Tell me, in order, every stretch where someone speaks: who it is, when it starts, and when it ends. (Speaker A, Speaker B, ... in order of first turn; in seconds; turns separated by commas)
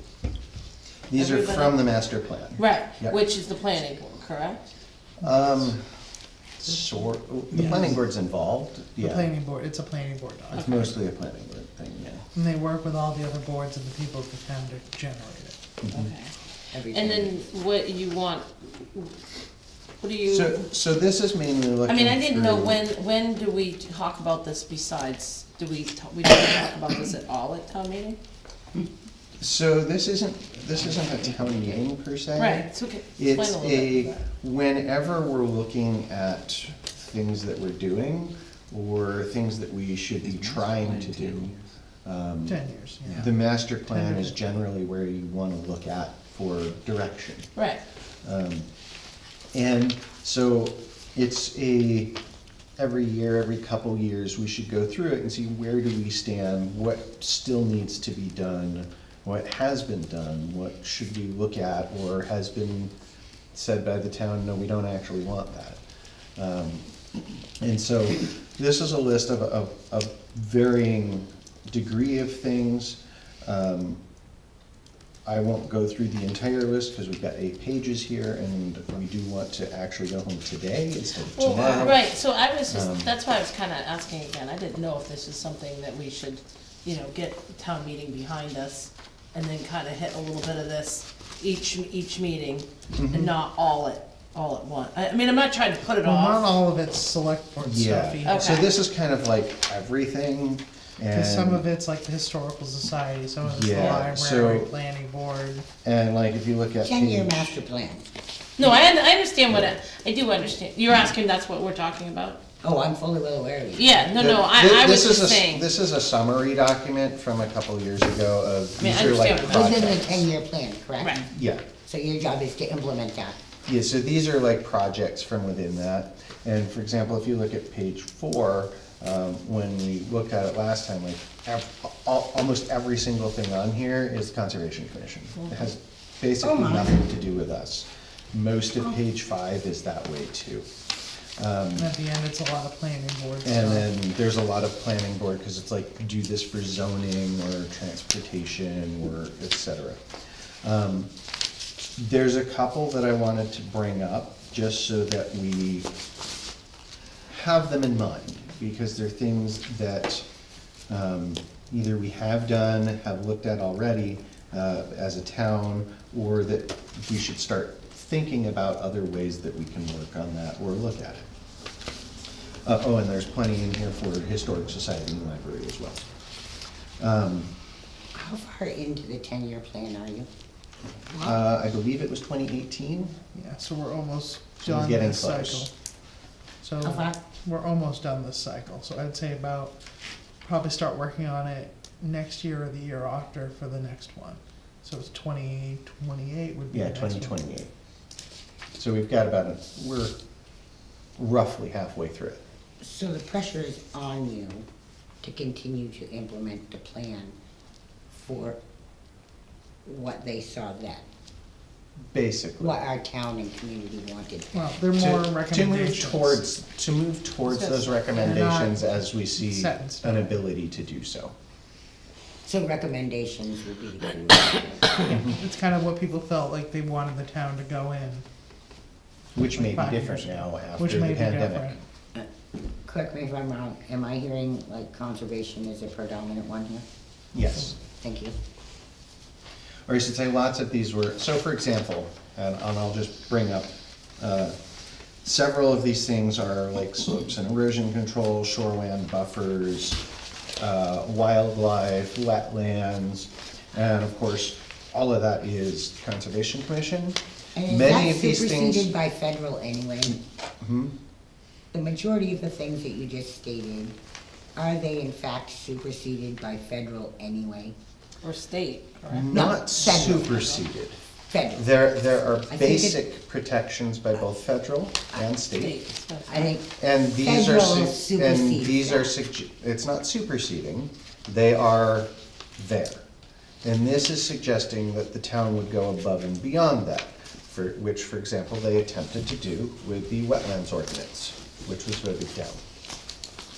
Speaker A: 1.1-3.2, Speaker B: 1.1-1.9, Speaker B: 2.5-4.7, Speaker A: 5.2-5.8, Speaker A: 6.6-9.3, Speaker C: 7.5-8.0, Speaker C: 9.0-10.9, Speaker B: 10.5-10.8, Speaker A: 10.6-12.2, Speaker C: 12.3-15.6, Speaker A: 15.8-16.1, Speaker B: 15.9-16.3, Speaker D: 16.7-17.4, Speaker B: 16.9-19.1, Speaker B: 20.0-20.7, Speaker A: 20.3-22.8, Speaker B: 21.9-28.2, Speaker A: 29.4-41.5, Speaker D: 30.8-31.7, Speaker B: 32.4-34.3, Speaker A: 42.0-47.5, Speaker C: 42.5-43.3, Speaker C: 43.8-44.3, Speaker B: 47.5-47.8, Speaker A: 48.2-48.7, Speaker A: 49.5-52.1, Speaker A: 52.8-62.9, Speaker A: 63.5-65.8, Speaker A: 66.4-66.9, Speaker A: 67.6-74.0, Speaker A: 75.2-82.0, Speaker B: 81.3-96.5, Speaker A: 82.7-83.1, Speaker A: 92.9-93.3, Speaker C: 96.0-98.7, Speaker A: 97.6-101.6, Speaker B: 98.2-98.7, Speaker C: 101.1-105.7, Speaker A: 103.4-104.7, Speaker A: 105.8-107.6, Speaker D: 106.8-108.0, Speaker B: 108.6-112.4, Speaker A: 109.5-109.8, Speaker D: 112.6-114.0, Speaker B: 113.7-115.7, Speaker A: 114.1-120.2, Speaker B: 118.8-120.2, Speaker D: 119.5-121.2, Speaker B: 121.0-121.3, Speaker A: 121.3-121.7, Speaker D: 121.8-123.4, Speaker A: 123.7-140.7, Speaker B: 135.3-135.7, Speaker D: 136.4-137.0, Speaker A: 141.4-141.9, Speaker C: 141.7-143.9, Speaker A: 143.4-150.0, Speaker A: 150.6-151.1, Speaker A: 152.0-155.9, Speaker A: 157.3-160.2, Speaker A: 160.9-171.2, Speaker A: 172.6-176.1, Speaker A: 177.0-177.5, Speaker D: 178.1-180.3, Speaker D: 181.1-181.4, Speaker A: 181.2-183.1, Speaker C: 183.3-185.7, Speaker A: 184.6-185.7, Speaker C: 186.6-189.8, Speaker D: 186.8-187.2, Speaker C: 190.4-197.4, Speaker A: 196.7-197.7, Speaker A: 198.8-200.1, Speaker A: 201.2-202.4, Speaker D: 202.8-204.6, Speaker D: 205.2-207.3, Speaker D: 208.1-208.6, Speaker D: 209.8-211.0, Speaker A: 212.1-212.8, Speaker D: 212.6-214.6, Speaker C: 214.5-216.4, Speaker A: 215.0-221.3, Speaker B: 217.5-218.3, Speaker C: 218.1-220.4, Speaker D: 222.4-225.0, Speaker C: 224.9-228.2, Speaker A: 229.3-231.8, Speaker C: 229.5-231.8, Speaker D: 232.8-236.8, Speaker A: 237.3-237.7, Speaker D: 237.8-238.3, Speaker A: 239.9-244.6, Speaker A: 245.2-250.0, Speaker A: 250.6-258.9, Speaker D: 257.6-260.2, Speaker A: 260.6-260.9, Speaker D: 261.7-263.9, Speaker D: 264.6-267.7, Speaker B: 268.2-270.6, Speaker A: 269.1-271.0, Speaker D: 269.3-270.3, Speaker D: 271.3-271.7, Speaker A: 271.5-275.8, Speaker D: 272.5-273.0, Speaker B: 275.5-276.6, Speaker D: 276.2-279.1, Speaker A: 276.8-283.0, Speaker A: 283.6-292.6